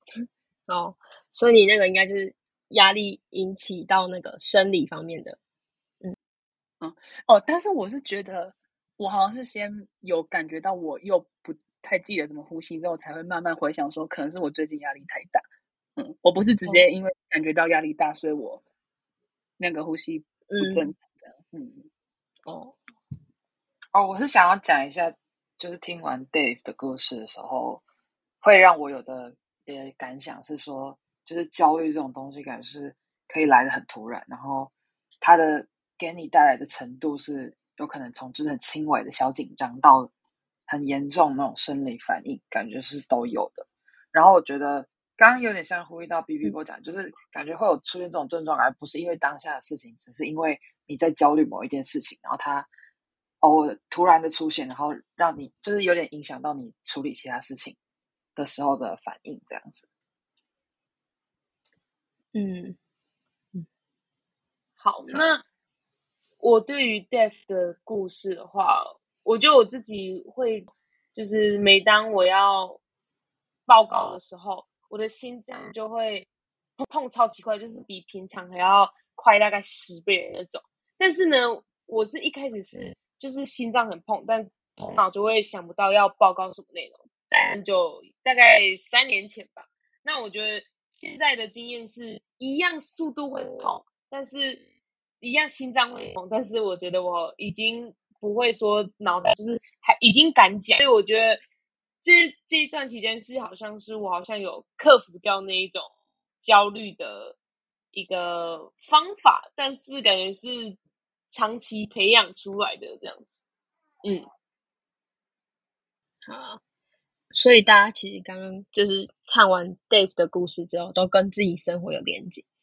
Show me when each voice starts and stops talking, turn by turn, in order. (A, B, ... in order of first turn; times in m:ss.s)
0:00.7-0:05.4 A
0:06.8-0:15.4 B
0:16.0-0:18.6 B
0:19.6-0:21.9 B
0:20.5-0:20.9 A
0:22.4-0:22.8 A
0:23.9-0:27.8 C
0:28.4-0:40.1 C
0:40.7-0:52.7 C
0:53.4-0:57.8 C
0:58.4-0:59.8 C
1:02.3-1:02.8 A
1:04.8-1:05.4 D
1:06.4-1:12.8 D
1:13.7-1:16.3 D
1:16.8-1:34.6 D
1:35.2-1:41.4 D
1:42.0-1:45.9 D
1:46.4-1:47.4 D
1:47.9-1:50.8 D
1:51.3-1:53.4 D
1:56.2-1:56.6 A
1:57.3-2:02.4 A